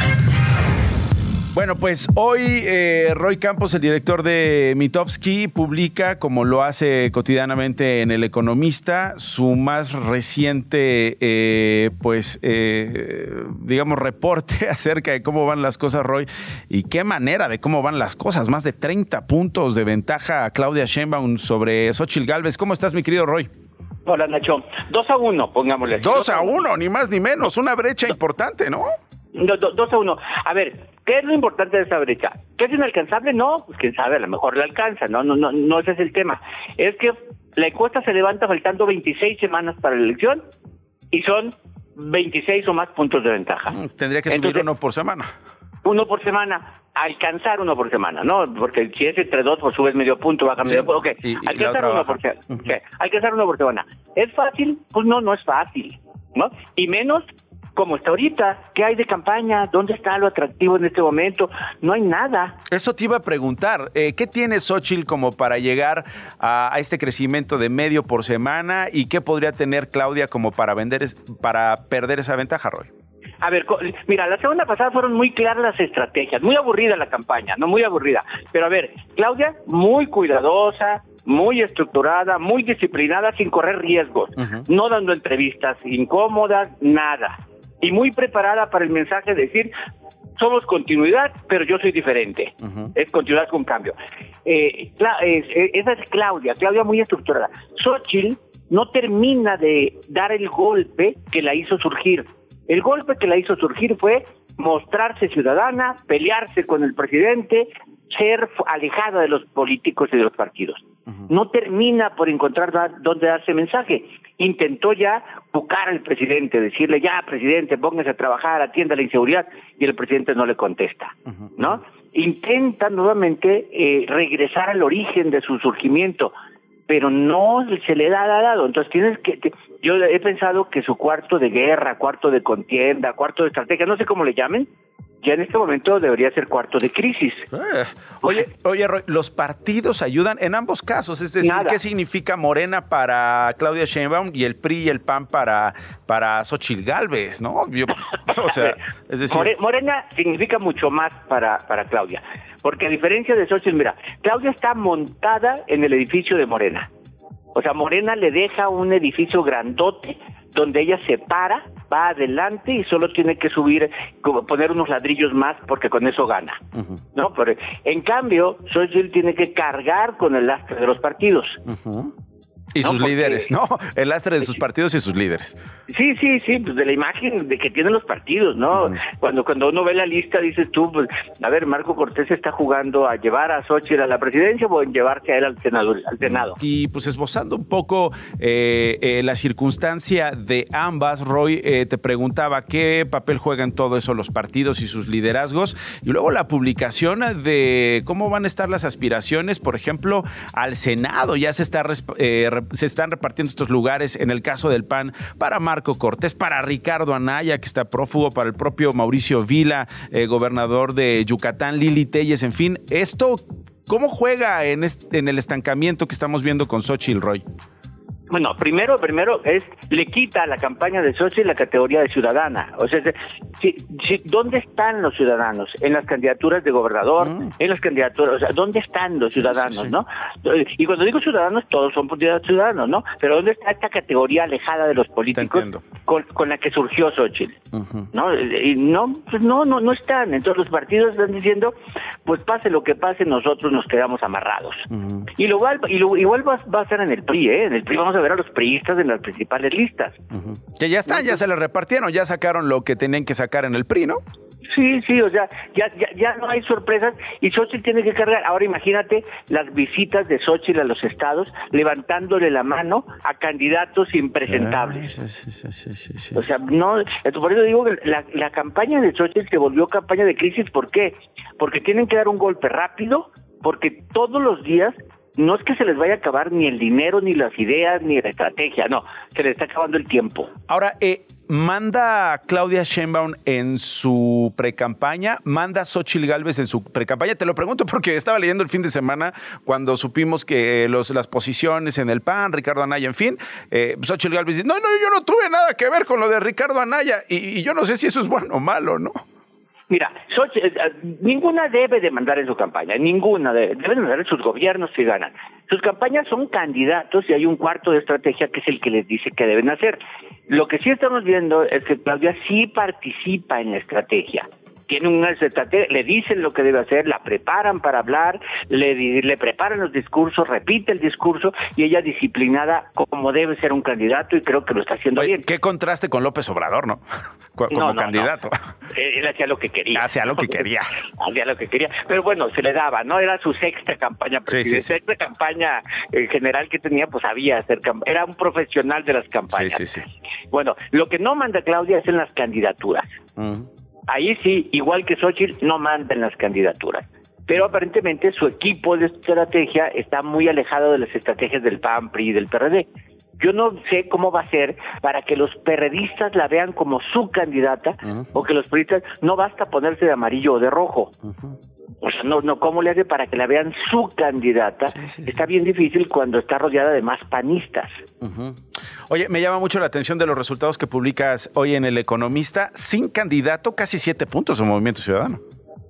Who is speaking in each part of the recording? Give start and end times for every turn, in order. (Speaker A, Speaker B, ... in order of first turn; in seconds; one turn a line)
Speaker A: 1.5-23.5
Speaker B: 24.1-26.5
Speaker A: 26.0-28.9
Speaker B: 29.3-40.4
Speaker B: 41.1-43.8
Speaker A: 43.7-45.3
Speaker B: 44.3-44.7
Speaker B: 45.8-62.6
Speaker A: 50.6-52.7
Speaker A: 62.7-72.9
Speaker B: 73.4-89.7
Speaker A: 84.4-84.6
Speaker B: 90.4-126.3
Speaker A: 92.6-92.9
Speaker A: 121.3-121.5
Speaker B: 126.9-134.7
Speaker B: 135.2-137.5
Speaker A: 137.5-149.5
Speaker B: 141.4-141.8
Speaker B: 149.3-156.9
Speaker B: 157.5-166.6
Speaker B: 167.1-171.6
Speaker A: 171.7-172.1
Speaker A: 172.7-175.6
Speaker B: 172.8-173.5
Speaker B: 175.9-186.6
Speaker A: 186.3-217.4
Speaker B: 218.3-237.6
Speaker A: 227.2-227.5
Speaker A: 229.4-230.0
Speaker A: 235.3-235.8
Speaker A: 237.7-238.1
Speaker B: 238.1-250.2
Speaker A: 244.9-245.3
Speaker A: 250.3-254.2
Speaker B: 254.7-265.1
Speaker A: 264.5-266.4
Speaker B: 266.3-280.5
Speaker A: 280.7-299.2
Speaker B: 299.9-310.0
Speaker B: 310.5-325.5
Speaker A: 325.2-327.0
Speaker A: 327.6-328.5
Speaker B: 327.7-328.3
Speaker B: 328.9-339.9
Speaker A: 329.9-330.9
Speaker A: 334.5-334.9
Speaker A: 339.5-340.1
Speaker B: 340.5-343.1
Speaker A: 343.4-343.7
Speaker B: 344.1-352.9
Speaker B: 353.4-361.1
Speaker A: 358.0-358.3
Speaker A: 361.2-361.5
Speaker B: 362.0-368.0
Speaker A: 364.9-365.4
Speaker A: 368.2-368.6
Speaker A: 369.1-375.4